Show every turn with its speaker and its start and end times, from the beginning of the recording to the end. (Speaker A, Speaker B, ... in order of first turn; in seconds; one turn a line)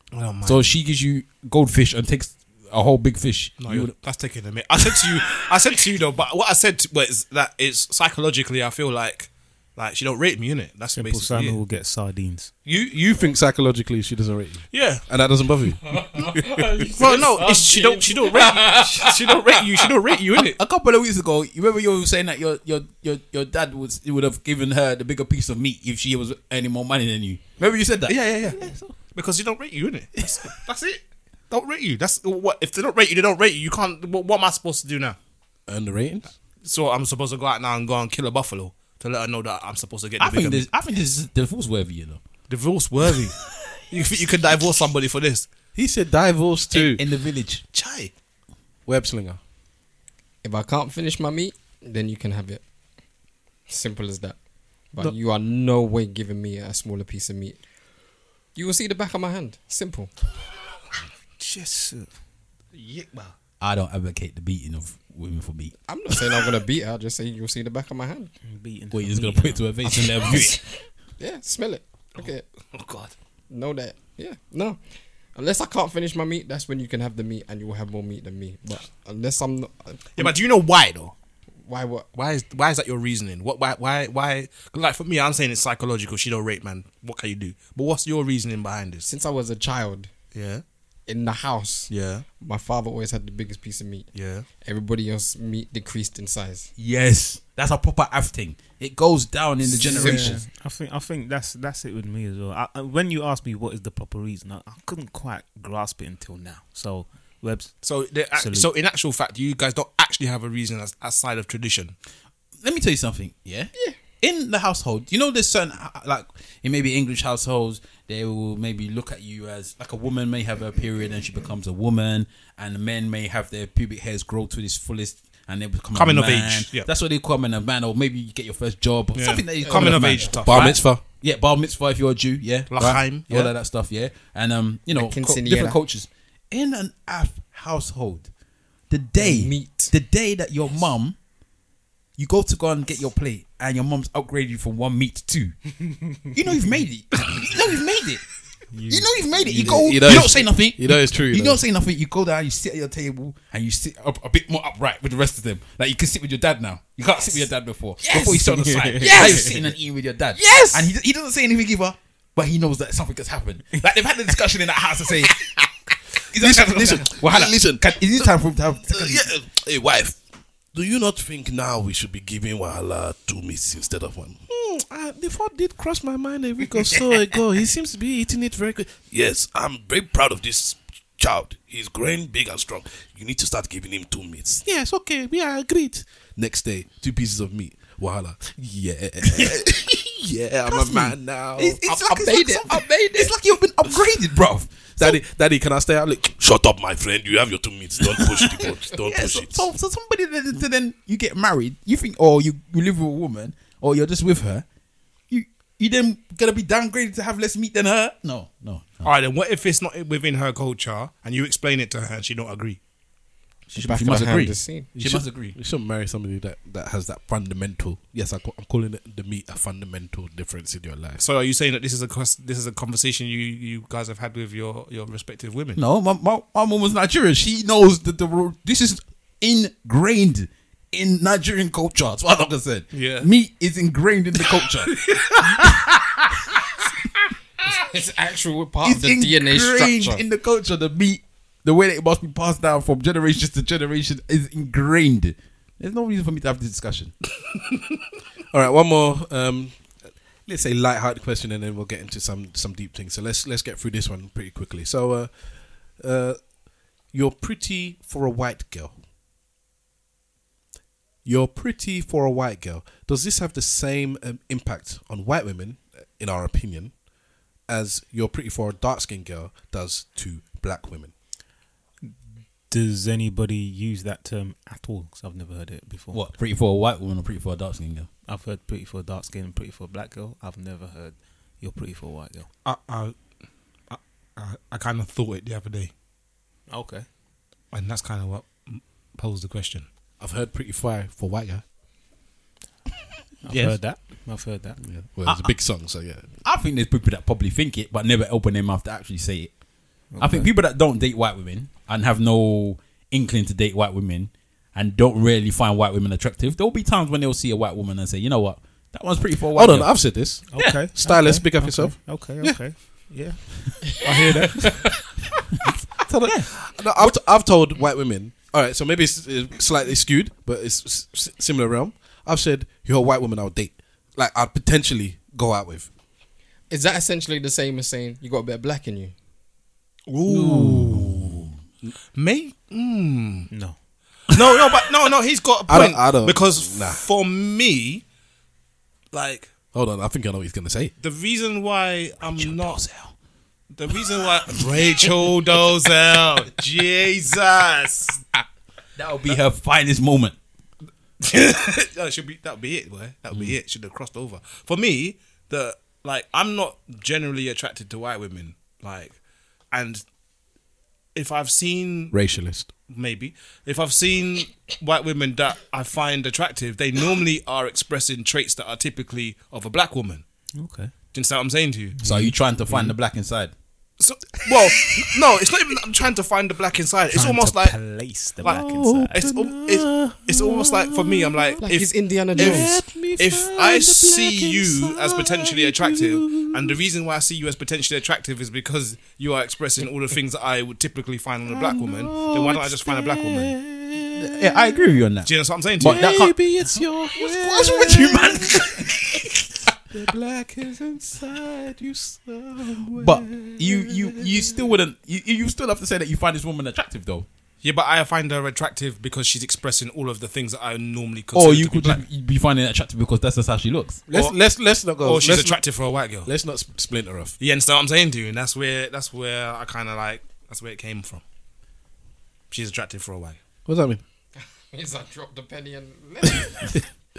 Speaker A: 0.1-0.7
Speaker B: 0.4-4.0
Speaker A: 3.6-11.6
Speaker C: 10.9-12.5
Speaker D: 12.6-15.8
Speaker A: 14.7-15.0
Speaker A: 16.0-20.6
Speaker C: 16.3-16.9
Speaker D: 17.0-18.6
Speaker B: 17.0-17.3
Speaker B: 18.2-19.3
Speaker B: 20.3-28.9
Speaker A: 28.1-35.2
Speaker D: 35.7-36.3
Speaker A: 36.6-40.7
Speaker B: 40.2-42.2
Speaker A: 42.5-43.4
Speaker A: 43.9-45.5
Speaker D: 45.7-47.0
Speaker B: 46.7-47.6
Speaker A: 47.7-48.1
Speaker D: 48.9-49.4
Speaker E: 50.4-52.6
Speaker E: 53.7-57.6
Speaker E: 58.5-60.1
Speaker C: 61.4-62.1
Speaker A: 62.7-63.4
Speaker B: 63.6-65.8
Speaker E: 65.9-68.3
Speaker C: 68.4-70.0
Speaker B: 68.9-70.6
Speaker E: 70.2-72.5
Speaker A: 72.6-73.1
Speaker E: 73.5-74.8
Speaker E: 75.3-80.3
Speaker A: 80.2-81.1
Speaker E: 81.6-82.1
Speaker A: 82.1-89.1
Speaker E: 89.0-90.1
Speaker A: 90.3-90.6
Speaker E: 91.1-96.7
Speaker A: 91.9-92.2
Speaker A: 94.1-94.5
Speaker B: 96.8-100.4
Speaker A: 99.8-100.4
Speaker E: 99.8-100.2
Speaker C: 99.8-108.7
Speaker A: 107.8-111.9
Speaker B: 112.6-138.3
Speaker A: 125.9-126.9
Speaker A: 129.1-130.8
Speaker E: 129.6-130.3
Speaker D: 130.4-131.0
Speaker A: 132.7-133.5
Speaker E: 134.9-135.8
Speaker B: 138.9-141.2
Speaker E: 139.2-139.9
Speaker B: 142.2-148.3
Speaker C: 148.7-149.6
Speaker B: 148.9-165.5
Speaker D: 149.5-151.6
Speaker E: 158.1-158.4
Speaker C: 158.4-159.7
Speaker E: 159.0-159.4
Speaker E: 160.3-160.9
Speaker B: 166.3-169.3
Speaker D: 166.3-168.3
Speaker D: 168.9-170.2
Speaker D: 170.7-191.8
Speaker B: 189.3-189.6
Speaker B: 190.7-195.2
Speaker E: 191.8-193.3
Speaker D: 195.0-199.7
Speaker B: 198.0-204.6
Speaker B: 205.3-209.1
Speaker A: 209.0-212.8
Speaker B: 213.7-215.6
Speaker E: 213.8-214.9
Speaker D: 214.9-221.2
Speaker A: 221.2-225.8
Speaker B: 225.8-236.5
Speaker A: 232.9-233.3
Speaker A: 234.9-235.7
Speaker E: 237.7-240.2
Speaker B: 238.8-247.1
Speaker D: 248.5-249.8
Speaker D: 250.4-255.3
Speaker D: 256.0-256.4
Speaker D: 257.1-258.9
Speaker D: 261.2-266.9
Speaker D: 267.7-271.1
Speaker C: 272.7-276.2
Speaker B: 276.1-278.1
Speaker C: 278.3-282.5
Speaker A: 282.6-283.1
Speaker A: 283.9-285.9
Speaker C: 286.7-287.1
Speaker A: 287.7-289.9
Speaker D: 290.2-291.6
Speaker C: 293.4-294.8
Speaker D: 294.8-296.2
Speaker B: 295.2-295.8
Speaker B: 296.4-299.6
Speaker C: 300.1-300.5
Speaker B: 300.2-310.8
Speaker D: 309.5-312.6
Speaker C: 310.5-314.9
Speaker A: 314.1-314.9
Speaker D: 316.0-325.9
Speaker B: 316.2-316.6
Speaker E: 326.7-329.1
Speaker A: 330.1-331.4
Speaker B: 330.3-331.4
Speaker D: 330.6-331.2
Speaker A: 332.1-333.5
Speaker C: 333.5-333.8
Speaker A: 334.3-338.0
Speaker D: 335.7-337.0
Speaker A: 339.1-339.5
Speaker D: 339.7-340.9
Speaker A: 341.0-342.8
Speaker B: 342.3-343.1
Speaker A: 343.7-348.2
Speaker B: 348.9-350.4
Speaker A: 351.2-359.2
Speaker A: 359.7-360.0
Speaker A: 361.1-362.1
Speaker D: 362.1-362.7
Speaker A: 362.9-370.2
Speaker C: 370.6-370.9
Speaker A: 371.1-372.0
Speaker C: 372.0-372.9
Speaker B: 372.0-373.5
Speaker A: 374.0-377.8
Speaker C: 377.1-379.4
Speaker A: 378.4-393.6
Speaker D: 378.4-381.6
Speaker E: 381.6-382.8
Speaker D: 382.3-386.8
Speaker D: 391.4-394.9
Speaker B: 394.1-396.5
Speaker A: 395.2-396.1
Speaker D: 395.8-399.1
Speaker B: 397.1-399.5
Speaker D: 399.9-404.6
Speaker B: 402.9-407.3
Speaker A: 407.6-412.0
Speaker B: 411.3-414.1
Speaker D: 414.1-415.6
Speaker A: 414.1-414.4
Speaker A: 415.0-416.3
Speaker D: 416.2-417.3
Speaker A: 417.4-421.2
Speaker A: 422.5-423.4
Speaker D: 423.6-424.0
Speaker E: 424.7-426.8
Speaker D: 426.4-426.8